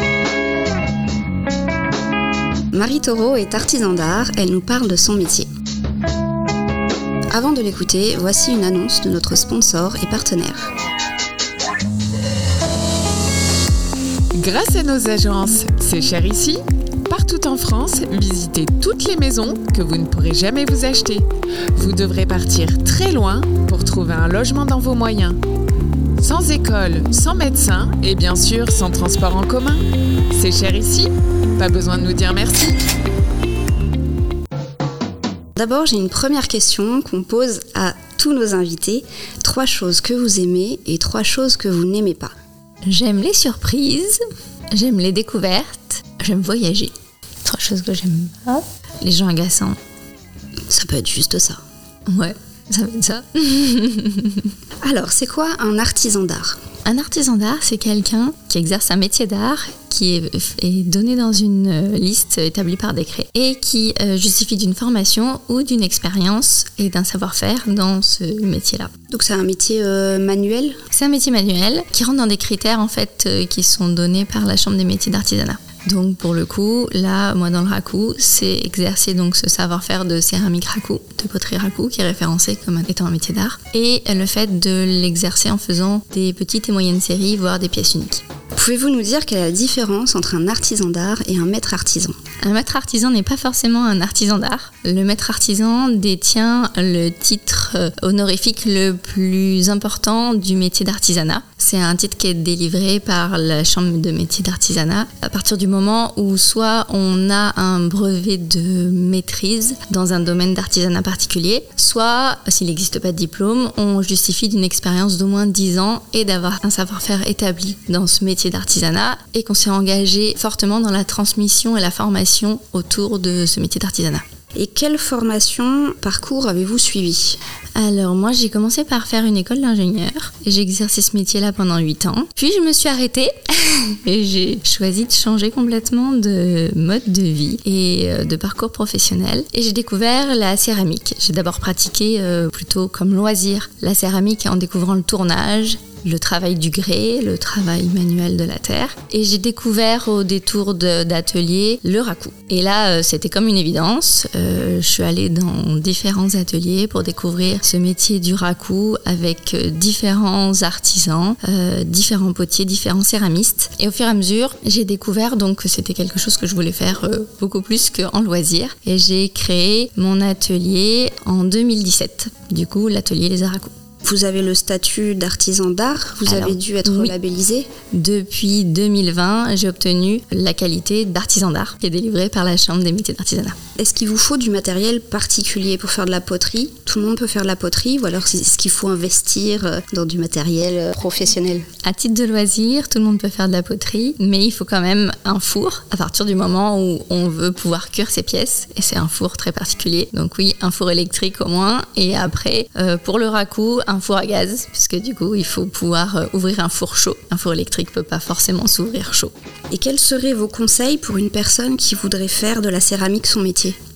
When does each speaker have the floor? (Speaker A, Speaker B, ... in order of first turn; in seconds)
Speaker A: 2.7-5.5, 7.3-10.6, 35.6-42.3, 50.7-51.6, 54.8-56.6, 69.1-70.8, 88.5-92.2, 124.5-127.4, 174.0-177.7, 183.8-191.7, 209.7-213.8
Speaker B: 14.3-25.4, 26.2-32.8
Speaker C: 42.9-44.2, 44.7-46.9, 47.4-49.8, 52.1-54.5, 56.9-68.9, 70.9-88.2, 92.4-124.2, 127.8-173.7, 176.3-177.2, 177.9-183.6, 191.8-209.3